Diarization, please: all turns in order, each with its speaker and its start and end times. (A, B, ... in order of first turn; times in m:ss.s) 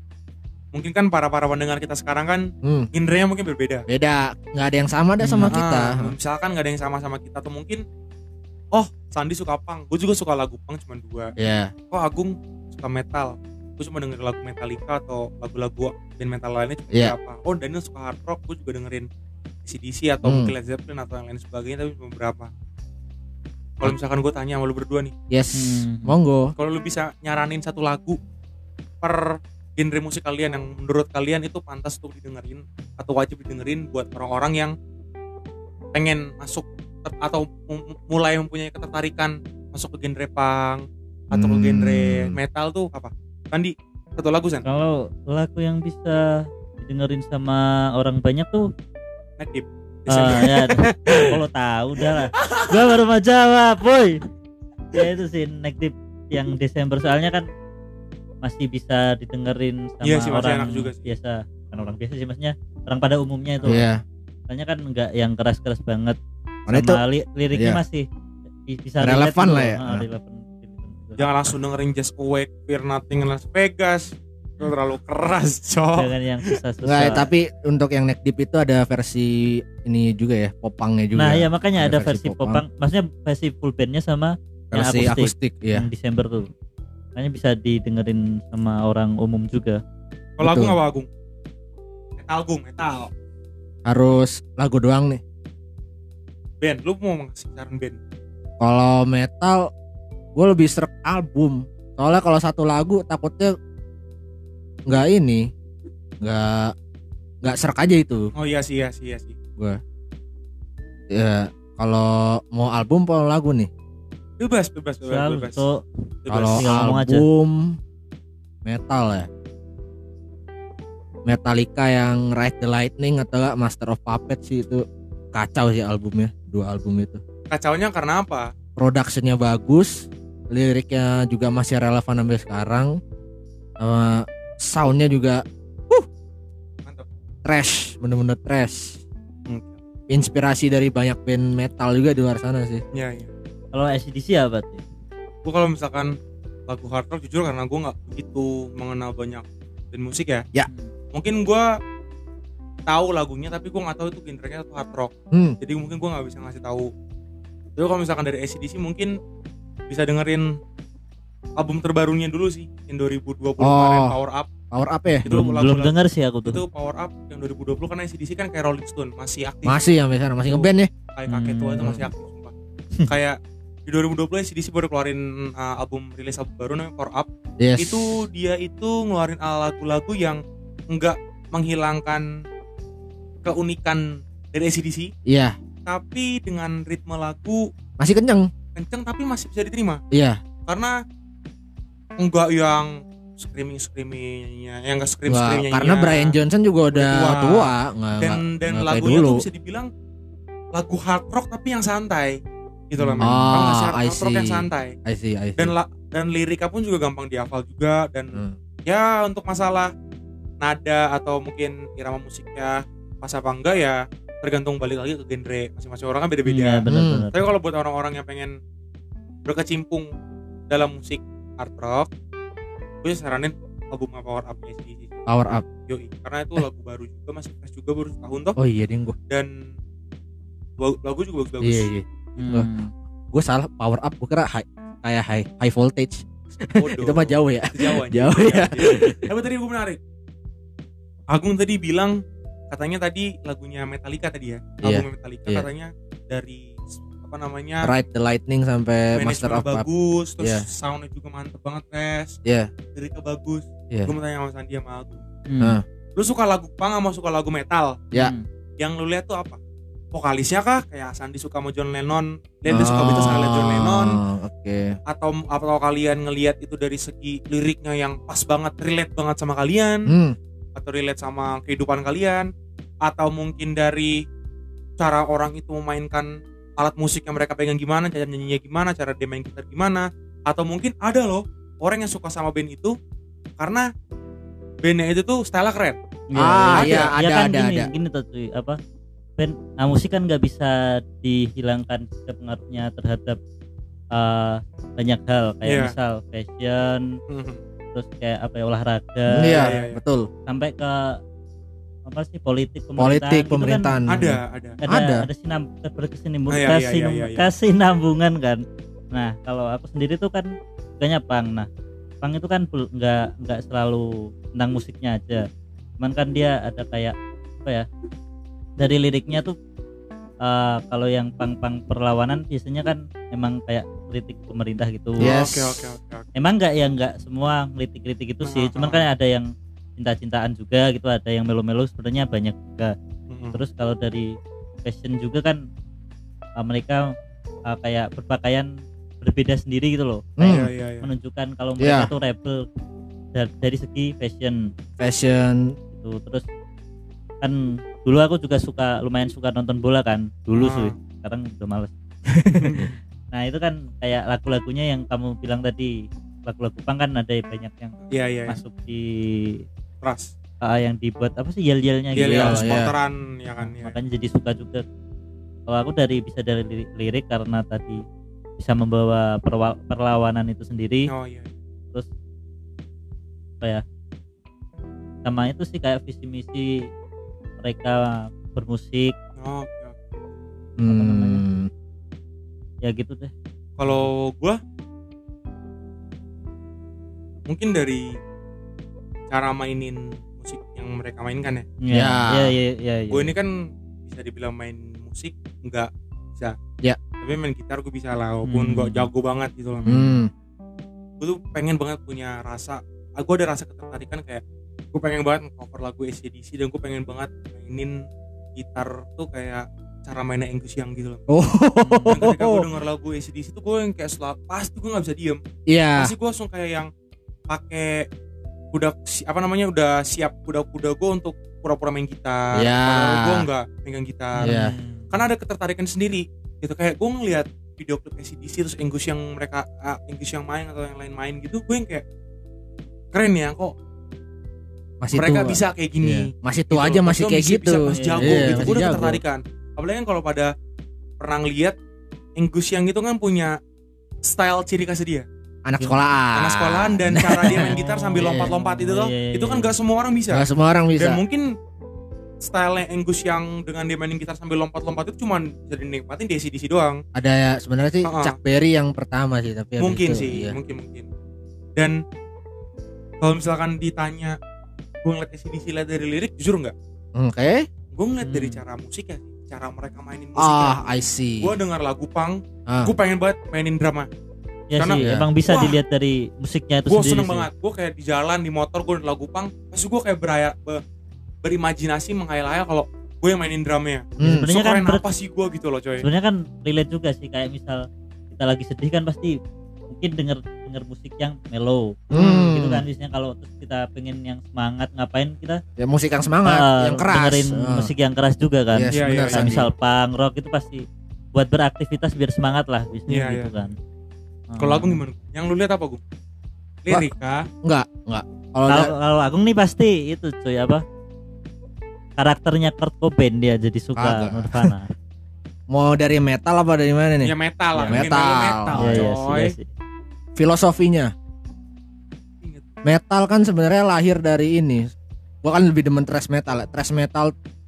0:00.7-0:03.9 A
0:02.6-0:02.9 B
0:03.9-0:06.1 B
0:05.2-0:05.6 C
0:05.4-0:07.8 A
0:08.7-0:11.3 A
0:11.4-0:11.7 B
0:11.9-0:19.1 A
0:19.6-0:22.5 A
0:20.2-0:20.5 B
0:23.8-0:25.1 A
0:25.3-0:26.5 B
0:25.5-0:26.2 C
0:26.6-0:28.2 A
0:29.0-0:34.8 A
0:35.9-0:44.6 A
0:41.3-0:42.4 B
0:44.6-0:48.7 C
0:49.4-0:51.4 A
0:50.1-0:54.2 C
0:52.3-0:52.7 A
0:54.9-0:57.5 C
0:58.4-1:03.8 C
1:00.0-1:01.1 A
1:03.6-1:04.0 B
1:04.5-1:06.2 C
1:06.7-1:07.0 B
1:06.7-1:08.1 C
1:07.5-1:07.8 B
1:08.7-1:11.3 C
1:09.0-1:10.0 B
1:11.2-1:16.5 A
1:16.0-1:17.3 C
1:16.8-1:22.6 B
1:21.2-1:26.5 C
1:24.7-1:25.9 B
1:27.2-1:29.8 C
1:30.4-1:31.1 A
1:30.4-1:30.8 B
1:32.2-1:33.1 A
1:33.8-1:35.2 B
1:36.6-1:38.0 A
1:38.6-1:39.7 B
1:40.4-1:43.6 B
1:44.9-1:45.5 B
1:46.2-1:46.7 B
1:47.4-1:48.3 B
1:48.4-1:49.4 A
1:51.1-1:53.7 B
1:54.4-1:55.6 A
1:55.1-1:55.8 C
1:56.3-1:56.7 A
1:56.3-1:57.8 B
1:56.5-1:57.3 C
1:58.6-1:59.3 B
2:01.3-2:07.2 B
2:07.5-2:08.5 A
2:08.8-2:13.0 B
2:13.8-2:16.1 B
2:17.4-2:19.0 B
2:19.5-2:19.8 A
2:20.1-2:22.8 B
2:22.9-2:23.3 A
2:23.7-2:24.8 C
2:25.4-2:26.2 A
2:26.7-2:30.5 A
2:31.1-2:31.7 A
2:32.9-2:36.9 A
2:35.3-2:35.6 B
2:37.8-2:39.2 A
2:39.9-2:40.6 A
2:41.6-2:44.5 A
2:43.6-2:44.2 B
2:44.7-2:45.4 B
2:45.2-2:49.8 A
2:45.3-2:46.6 C
2:49.6-2:50.9 B
2:50.4-2:52.5 A
2:51.3-2:52.0 C
2:53.1-3:02.3 A
2:57.6-2:58.0 B
3:03.4-3:05.1 A
3:05.3-3:05.6 B
3:05.9-3:07.7 A
3:08.0-3:08.5 B
3:08.8-3:10.0 A
3:10.1-3:10.4 B
3:10.7-3:11.0 A
3:12.2-3:16.4 A
3:15.3-3:19.4 B
3:16.9-3:19.9 A
3:20.7-3:25.0 A
3:23.0-3:23.5 C
3:23.2-3:25.7 B
3:25.6-3:29.9 A
3:30.6-3:38.6 A
3:36.5-3:37.4 C
3:36.9-3:37.3 B
3:39.5-3:40.1 A
3:40.7-3:42.1 A
3:43.0-3:45.2 A
3:45.3-3:45.6 B
3:45.9-3:48.6 A
3:48.6-3:49.2 B
3:49.3-3:49.7 A
3:50.8-3:51.9 A
3:51.6-3:52.7 B
3:52.4-3:52.9 C
3:53.3-3:59.3 B
3:56.8-4:00.0 A
4:01.3-4:02.2 A
4:02.7-4:07.9 A
4:04.8-4:05.7 B
4:07.8-4:09.8 B
4:09.1-4:12.4 A
4:12.4-4:12.7 B
4:13.0-4:15.3 A
4:15.5-4:15.8 C
4:16.2-4:18.0 A
4:18.1-4:18.4 C
4:18.8-4:19.6 A
4:20.1-4:24.2 A
4:22.7-4:25.0 B
4:25.1-4:30.1 A
4:30.1-4:30.4 B
4:30.8-4:32.5 A
4:33.0-4:34.2 A
4:35.0-4:43.0 A
4:43.6-4:43.9 A
4:44.8-4:46.0 A
4:46.3-4:48.8 C
4:46.4-4:47.9 B
4:46.8-4:47.1 A
4:49.4-4:53.4 C
4:54.1-4:57.2 C
4:55.6-4:55.9 A
4:57.3-4:57.6 A
4:57.9-4:59.8 C
4:59.3-5:00.3 B
4:59.6-5:00.0 A
5:00.5-5:01.2 C
5:02.1-5:03.9 C
5:03.0-5:05.3 B
5:04.1-5:04.8 A
5:04.8-5:11.7 C
5:06.5-5:07.5 A
5:12.2-5:15.5 C
5:16.0-5:17.9 C
5:18.8-5:19.6 C
5:20.4-5:25.4 C
5:25.2-5:25.9 B
5:25.2-5:26.3 A
5:26.4-5:33.0 C
5:28.4-5:29.1 A
5:33.3-5:33.6 A
5:33.5-5:35.6 C
5:36.6-5:37.1 C
5:37.7-5:38.7 C
5:39.2-5:40.3 C
5:40.4-5:40.7 B
5:40.4-5:41.1 A
5:41.0-5:42.7 C
5:41.8-5:42.1 B
5:43.3-5:44.7 C
5:45.0-5:45.8 B
5:46.0-5:46.5 C
5:47.4-5:51.9 C
5:50.5-5:51.0 A
5:52.3-5:52.9 B
5:52.6-5:53.0 A
5:53.3-5:59.6 C
5:58.1-5:58.6 A
6:00.0-6:00.3 A
6:00.6-6:02.8 C
6:02.2-6:04.0 A
6:02.2-6:02.9 B
6:03.6-6:04.8 C
6:05.7-6:08.0 C
6:08.6-6:11.1 C
6:11.1-6:11.5 A
6:15.2-6:16.9 C
6:17.6-6:19.2 C
6:19.4-6:20.0 A
6:20.8-6:21.7 B
6:20.9-6:21.4 C
6:22.8-6:23.3 C
6:23.8-6:24.6 A
6:27.5-6:28.2 A
6:29.3-6:31.7 A
6:31.8-6:33.3 C
6:31.9-6:32.6 B
6:33.1-6:36.6 A
6:37.2-6:40.0 A
6:38.4-6:39.1 C
6:39.8-6:40.2 C
6:39.9-6:40.3 B
6:41.2-6:48.0 A
6:48.6-6:51.2 A
6:51.3-6:52.7 B
6:51.8-6:52.2 C
6:52.1-6:55.4 A
6:55.7-6:56.1 B
6:56.0-6:56.9 A
6:57.5-6:58.1 A
6:58.7-7:04.5 A
7:02.5-7:03.5 B
7:04.4-7:05.1 C
7:04.4-7:04.7 B
7:05.1-7:12.0 A
7:13.1-7:13.8 A
7:15.0-7:19.2 B
7:15.1-7:20.5 A
7:17.9-7:19.0 C
7:21.2-7:21.8 A
7:22.4-7:23.6 A
7:24.2-7:25.3 A
7:25.6-7:28.5 B
7:26.3-7:30.5 A
7:27.5-7:29.7 C
7:30.3-7:31.2 B
7:31.0-7:31.6 A
7:32.4-7:37.0 A
7:37.2-7:40.6 B
7:38.0-7:38.4 A
7:39.8-7:41.1 A
7:41.8-7:42.0 A
7:43.2-7:44.4 A
7:45.0-7:46.7 A
7:47.2-7:47.7 B
7:47.9-7:50.9 A
7:48.2-7:48.6 C
7:50.4-7:51.6 B
7:51.4-7:54.1 A
7:52.7-7:52.9 B
7:54.7-7:57.5 C
7:54.8-7:55.8 A
7:55.0-7:55.3 B
7:56.9-8:00.8 A
8:01.4-8:06.0 A
8:04.2-8:04.5 B
8:04.2-8:05.0 C
8:06.0-8:09.4 C
8:09.9-8:15.6 C
8:12.1-8:12.8 B
8:12.1-8:12.5 A
8:15.8-8:17.9 B
8:16.4-8:23.8 C
8:18.7-8:19.7 B
8:18.9-8:19.6 A
8:23.1-8:23.5 A
8:24.5-8:25.0 C
8:24.6-8:26.0 A
8:26.8-8:27.5 A
8:27.6-8:28.9 B
8:28.7-8:30.8 C
8:32.2-8:34.9 C
8:34.0-8:34.8 B
8:35.7-8:37.3 B
8:37.2-8:39.6 A
8:37.8-8:38.0 C
8:37.8-8:39.0 B
8:38.8-8:39.7 C
8:40.4-8:41.1 B
8:42.4-8:42.7 A
8:42.8-8:44.9 B
8:45.4-8:47.3 B